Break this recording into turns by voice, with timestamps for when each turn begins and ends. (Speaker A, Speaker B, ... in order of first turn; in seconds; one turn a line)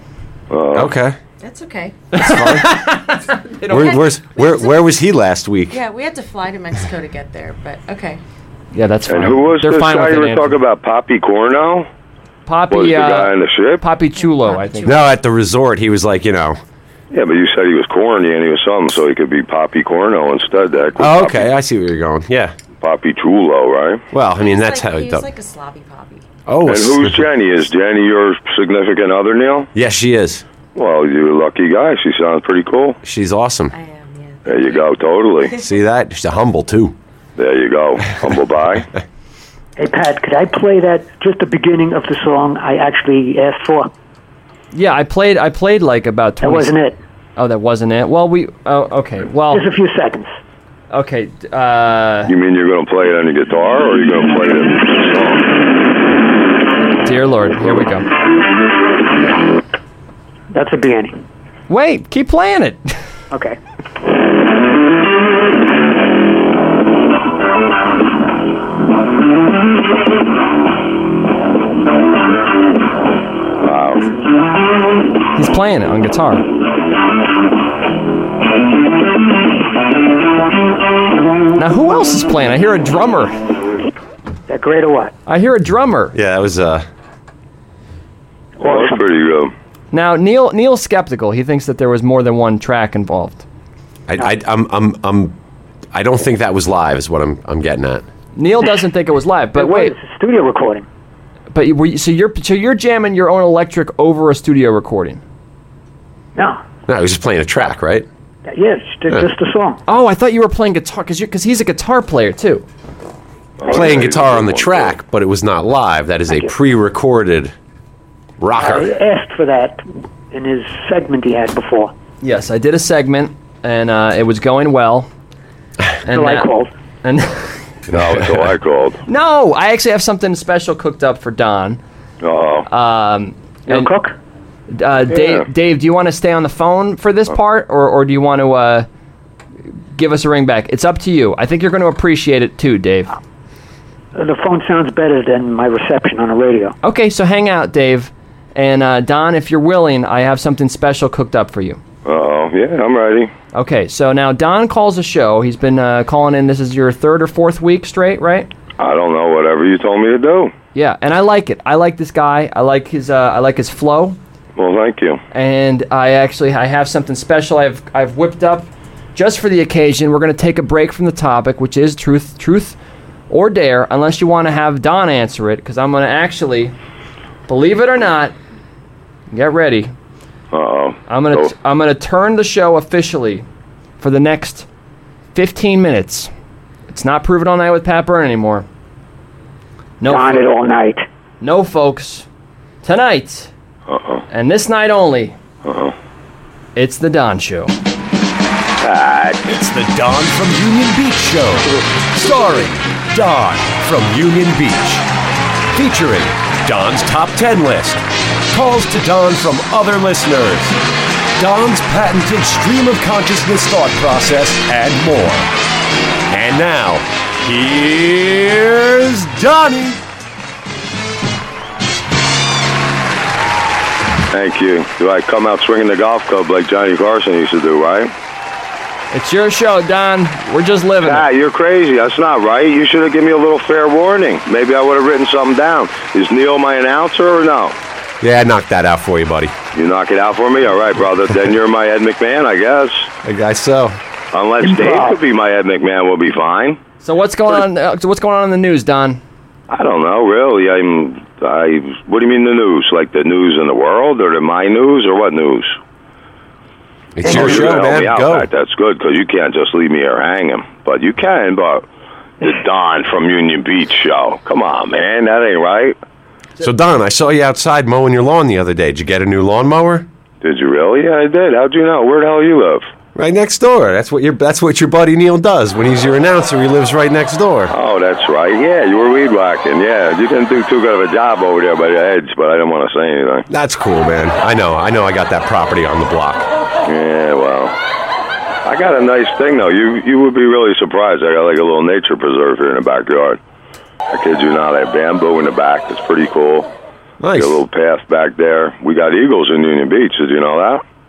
Speaker A: 0.5-0.9
Speaker B: 0.7-1.2
Speaker C: 1.4-1.9
Speaker D: 2.1-4.1
Speaker B: 2.2-2.8
Speaker B: 3.7-5.8
Speaker C: 4.3-4.8
Speaker C: 5.7-8.2
Speaker D: 8.7-10.6
Speaker A: 9.1-11.9
Speaker D: 12.4-15.0
Speaker A: 12.7-13.8
Speaker C: 14.2-15.1
Speaker B: 14.8-16.6
Speaker A: 17.1-21.5
Speaker B: 21.0-22.5
Speaker A: 22.8-24.0
Speaker B: 24.1-25.3
Speaker C: 24.4-26.2
Speaker B: 26.4-27.3
Speaker A: 26.6-29.7
Speaker B: 29.7-30.4
Speaker A: 30.7-33.0
Speaker B: 33.0-33.7
Speaker C: 33.7-34.9
Speaker A: 34.5-35.5
Speaker B: 35.6-36.9
Speaker A: 37.4-38.9
Speaker E: 39.8-43.9
Speaker D: 44.7-46.8
Speaker E: 46.4-47.0
Speaker D: 47.4-49.6
Speaker E: 49.5-50.3
Speaker D: 50.9-52.3
Speaker A: 52.3-55.4
Speaker D: 57.0-58.1
Speaker E: 60.5-61.2
Speaker D: 61.7-62.9
Speaker E: 63.3-63.6
Speaker A: 73.6-74.0
Speaker D: 75.3-76.5
Speaker D: 81.6-83.4
Speaker E: 84.5-85.1
Speaker D: 85.3-86.2
Speaker B: 86.1-86.9
Speaker E: 88.6-89.0
Speaker A: 88.6-89.5
Speaker D: 89.9-93.4
Speaker B: 94.1-95.3
Speaker B: 95.9-98.0
Speaker D: 98.3-99.9
Speaker E: 99.5-100.9
Speaker D: 101.5-105.2
Speaker E: 106.4-106.6
Speaker B: 106.9-108.0
Speaker E: 108.5-109.8
Speaker D: 109.9-112.7
Speaker A: 113.6-115.0
Speaker B: 113.7-117.5
Speaker B: 118.4-118.9
Speaker E: 118.5-121.9
Speaker D: 122.2-125.1
Speaker D: 126.0-126.5
Speaker E: 126.1-126.7
Speaker D: 127.0-127.6
Speaker A: 127.9-129.0
Speaker B: 127.9-128.5
Speaker D: 129.1-131.8
Speaker A: 132.2-132.7
Speaker D: 132.7-133.9
Speaker E: 133.7-134.1
Speaker D: 134.7-138.9
Speaker A: 135.1-135.4
Speaker D: 139.9-143.2
Speaker E: 144.1-146.7
Speaker D: 146.8-151.8
Speaker A: 152.1-153.3
Speaker D: 153.5-158.5
Speaker A: 158.8-160.5
Speaker D: 160.7-164.2
Speaker A: 164.6-165.2
Speaker D: 165.3-172.8
Speaker D: 173.3-176.7
Speaker D: 177.5-178.3
Speaker D: 179.3-179.9
Speaker A: 180.5-181.5
Speaker D: 181.1-183.4
Speaker D: 184.0-184.7
Speaker D: 185.3-186.3
Speaker D: 186.9-188.7
Speaker D: 190.0-190.5
Speaker E: 190.1-191.1
Speaker D: 191.4-192.3
Speaker D: 192.8-193.5
Speaker A: 193.9-194.2
Speaker D: 194.3-195.4
Speaker A: 195.6-195.9
Speaker D: 196.8-197.7
Speaker A: 198.8-199.5
Speaker B: 199.4-205.1
Speaker D: 202.3-202.7
Speaker B: 205.7-210.8
Speaker B: 211.4-215.5
Speaker B: 216.3-220.0
Speaker A: 224.3-228.1
Speaker D: 229.1-231.3
Speaker A: 231.0-237.8
Speaker B: 238.2-239.5
Speaker A: 239.7-243.1
Speaker B: 243.2-244.0
Speaker A: 244.3-246.8
Speaker E: 244.6-245.2
Speaker D: 247.0-249.2
Speaker A: 249.7-255.8
Speaker B: 257.1-258.5
Speaker A: 257.2-261.9
Speaker A: 262.4-266.0
Speaker B: 266.6-270.1
Speaker A: 270.4-272.9
Speaker B: 273.1-277.7
Speaker A: 277.7-283.4
Speaker B: 283.5-286.5
Speaker A: 286.8-287.8
Speaker A: 288.6-293.4
Speaker A: 294.1-296.7
Speaker B: 297.2-297.6
Speaker A: 297.3-300.8